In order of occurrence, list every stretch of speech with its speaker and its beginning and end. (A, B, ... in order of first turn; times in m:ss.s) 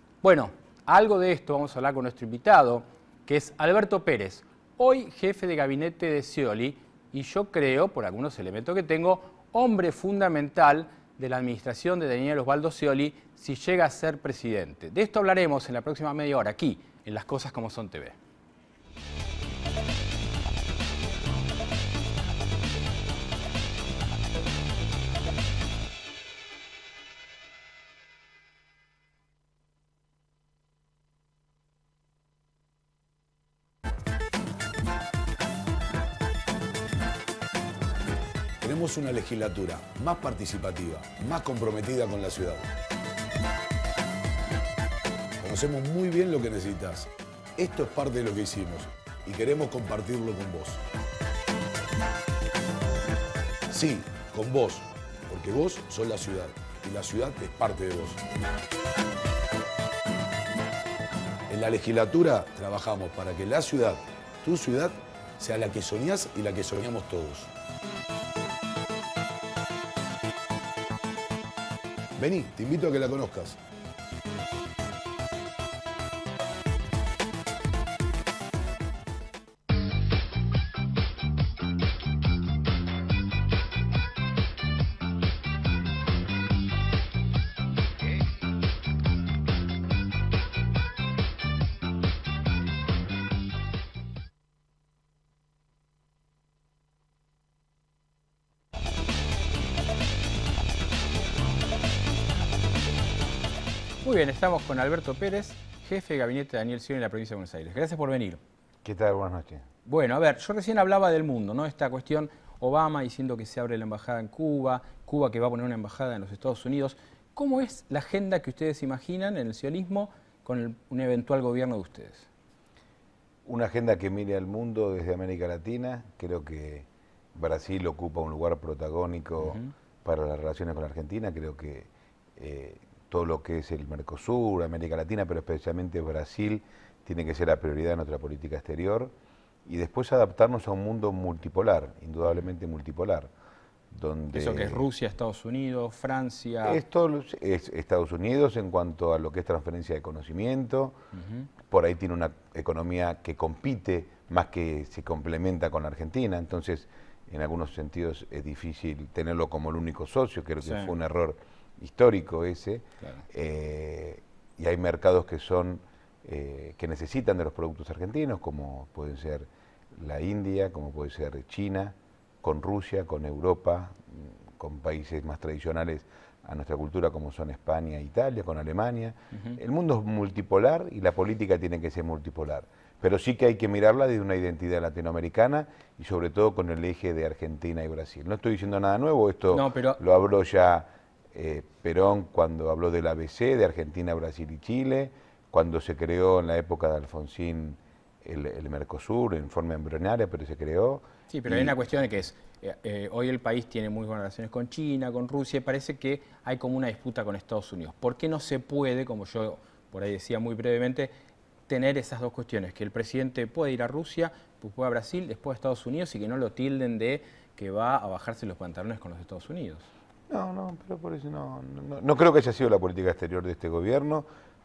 0:00.2-0:18.2 A
0:38.6-0:42.7 B
0:45.4-0:50.8 B
0:53.7-0:58.2 B
1:01.5-1:07.5 B
1:12.2-1:13.6 B
1:44.0-1:48.4 A
1:48.8-1:49.6 C
1:49.8-2:02.3 A
2:03.5-2:19.1 C
2:09.4-2:09.7 A
2:19.7-2:23.3 C
2:23.9-2:24.9 C
2:24.3-2:26.8 A
2:26.6-2:31.0 C
2:31.1-2:31.5 A
2:31.7-3:21.8 C
2:40.6-2:40.9 A
2:59.3-2:59.6 A
3:09.5-3:10.0 A
3:21.3-3:31.1 A
3:31.7-3:39.9 A
3:40.3-3:44.3 C